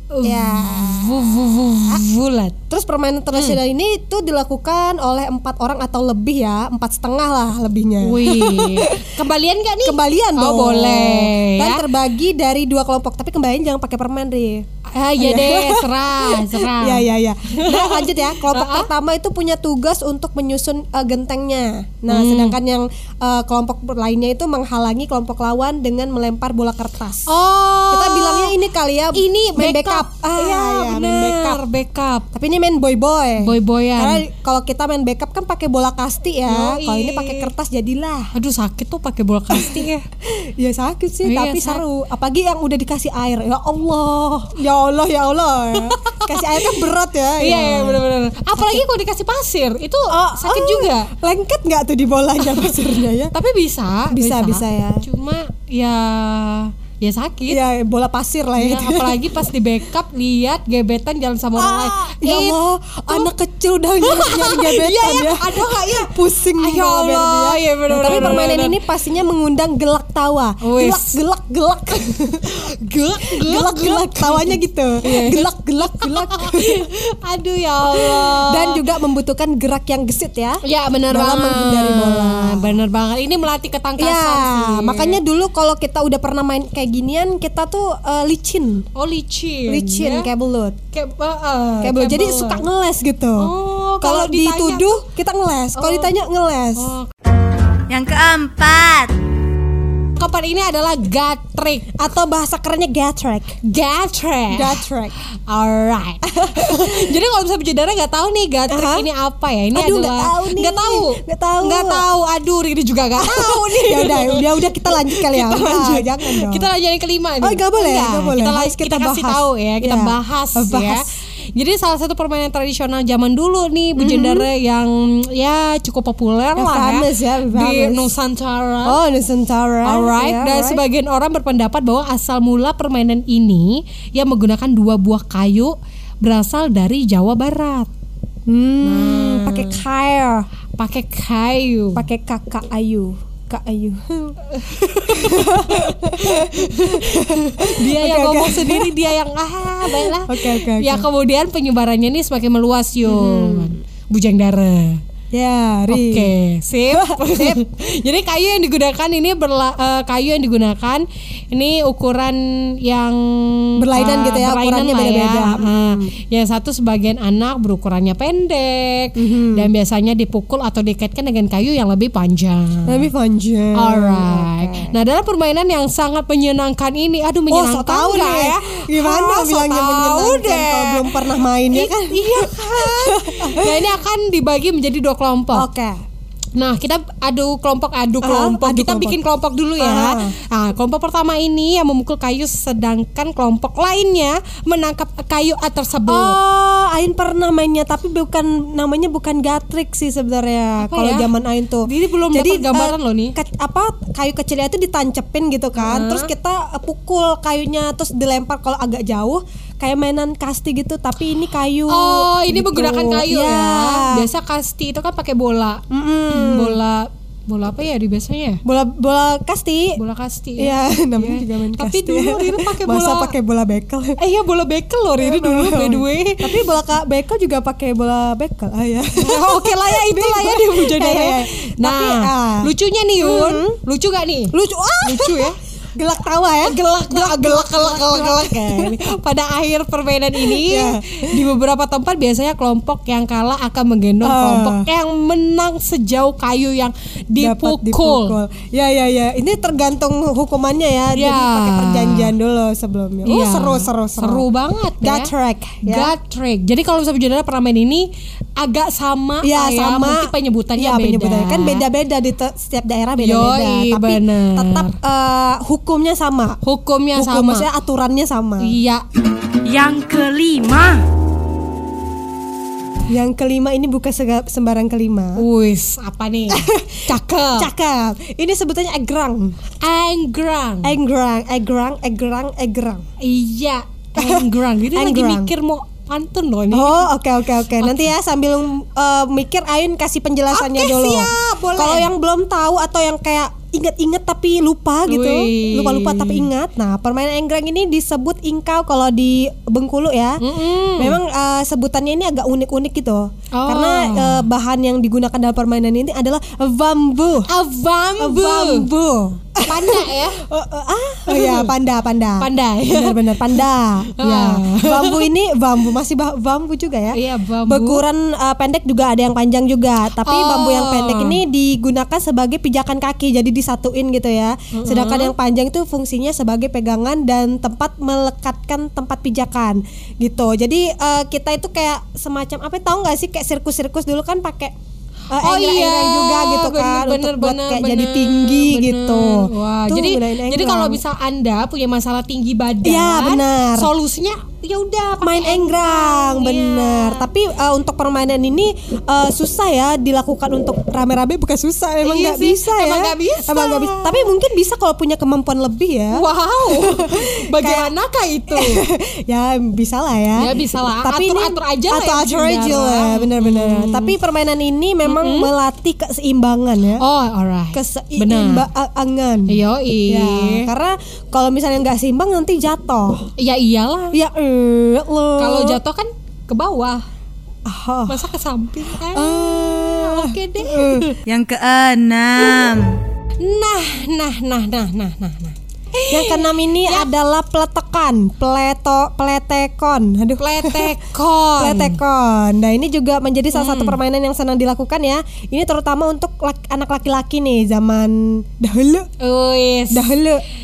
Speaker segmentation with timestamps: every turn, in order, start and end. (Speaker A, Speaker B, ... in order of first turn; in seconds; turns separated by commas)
Speaker A: 0.1-2.6, Speaker B: 0.2-2.0, Speaker B: 2.7-9.2, Speaker A: 8.0-11.8, Speaker B: 9.8-14.7, Speaker A: 14.9-18.9, Speaker B: 15.2-27.3, Speaker A: 22.1-22.6, Speaker A: 27.3-28.5, Speaker B: 27.9-31.6, Speaker A: 29.1-32.3, Speaker B: 32.3-38.3, Speaker A: 33.4-34.2, Speaker A: 36.5-37.5, Speaker A: 38.3-40.0, Speaker B: 39.5-48.0, Speaker A: 41.2-41.8, Speaker A: 45.8-46.8, Speaker A: 47.4-51.1, Speaker B: 48.6-48.8, Speaker B: 50.1-53.3, Speaker A: 53.3-57.6, Speaker B: 54.1-55.0, Speaker B: 57.5-59.3, Speaker A: 58.6-62.6, Speaker B: 61.6-72.7, Speaker A: 64.0-68.8, Speaker A: 70.6-71.2, Speaker A: 72.8-78.8, Speaker B: 73.2-76.9, Speaker B: 77.9-82.8, Speaker A: 80.6-85.2, Speaker B: 84.0-88.9, Speaker A: 88.9-90.3, Speaker B: 89.7-90.8, Speaker A: 90.9-92.7, Speaker B: 91.8-96.9, Speaker A: 93.4-95.0, Speaker A: 95.7-96.1, Speaker A: 96.8-97.1, Speaker C: 97.9-99.1, Speaker A: 100.2-101.9, Speaker B: 102.0-103.6, Speaker A: 103.6-104.8, Speaker B: 104.5-105.1, Speaker A: 105.5-129.0, Speaker B: 106.3-107.2, Speaker B: 108.7-109.1, Speaker B: 109.7-112.0, Speaker B: 113.2-116.7, Speaker B: 117.4-121.0, Speaker B: 124.0-124.5, Speaker B: 126.6-128.1, Speaker B: 128.8-130.8, Speaker A: 129.8-137.9, Speaker B: 138.5-140.5, Speaker A: 138.8-139.8, Speaker A: 140.8-142.1, Speaker B: 141.9-144.4, Speaker A: 144.6-155.0, Speaker B: 144.9-148.9, Speaker B: 149.8-151.1, Speaker B: 153.0-153.7, Speaker B: 155.3-156.3, Speaker A: 155.9-173.1, Speaker B: 156.9-157.6, Speaker B: 163.8-166.1, Speaker B: 169.2-169.7, Speaker B: 172.8-174.9, Speaker A: 173.7-185.7, Speaker B: 177.5-183.9, Speaker B: 185.5-186.0, Speaker A: 186.6-196.4, Speaker B: 188.2-189.2, Speaker B: 189.8-190.3, Speaker B: 196.1-214.3, Speaker A: 200.8-201.3, Speaker A: 201.8-203.3, Speaker A: 205.8-206.3, Speaker A: 211.9-218.6, Speaker B: 215.9-216.8, Speaker B: 218.7-220.0, Speaker A: 219.9-223.3, Speaker B: 220.6-224.2, Speaker A: 224.2-226.6, Speaker B: 225.2-233.8, Speaker A: 229.2-235.6, Speaker B: 234.5-238.9, Speaker A: 236.6-248.4, Speaker B: 240.3-241.5, Speaker B: 244.2-244.9, Speaker B: 247.4-254.4, Speaker A: 251.1-252.3, Speaker A: 253.2-255.3, Speaker B: 255.0-256.1, Speaker A: 255.8-261.8, Speaker B: 259.4-266.6, Speaker A: 263.2-264.9, Speaker A: 266.6-267.7, Speaker B: 267.1-268.7, Speaker A: 268.6-269.0, Speaker A: 269.6-271.0, Speaker B: 273.1-275.4, Speaker A: 275.4-277.7, Speaker B: 276.5-279.6, Speaker A: 279.8-280.9, Speaker B: 280.8-283.0, Speaker A: 283.2-287.1, Speaker B: 284.2-285.5, Speaker B: 286.7-307.5, Speaker A: 287.8-288.1, Speaker A: 290.5-292.1, Speaker A: 295.1-296.4, Speaker A: 300.4-301.2, Speaker A: 303.5-304.4, Speaker A: 307.5-308.9, Speaker B: 308.2-334.7, Speaker A: 309.6-310.4, Speaker A: 311.3-311.7, Speaker A: 312.4-313.4, Speaker A: 314.2-315.3, Speaker A: 317.1-318.0, Speaker A: 320.2-321.4, Speaker A: 324.7-325.3, Speaker B: 335.3-341.0, Speaker A: 335.3-347.2, Speaker B: 342.8-343.9, Speaker B: 345.2-357.9, Speaker A: 352.0-354.3, Speaker A: 356.1-358.8, Speaker B: 358.5-367.0, Speaker A: 360.4-364.1, Speaker A: 365.1-365.5, Speaker A: 367.0-368.7, Speaker B: 367.7-373.3, Speaker A: 369.5-370.7, Speaker A: 373.4-374.2, Speaker B: 374.1-375.8, Speaker A: 375.4-377.0, Speaker B: 377.7-378.3, Speaker A: 378.1-381.2, Speaker B: 379.0-381.1, Speaker C: 381.3-382.9, Speaker A: 383.4-387.1, Speaker B: 386.1-391.0, Speaker A: 390.4-392.0, Speaker B: 391.6-399.1, Speaker A: 393.5-394.0, Speaker A: 399.2-400.2, Speaker B: 399.9-400.4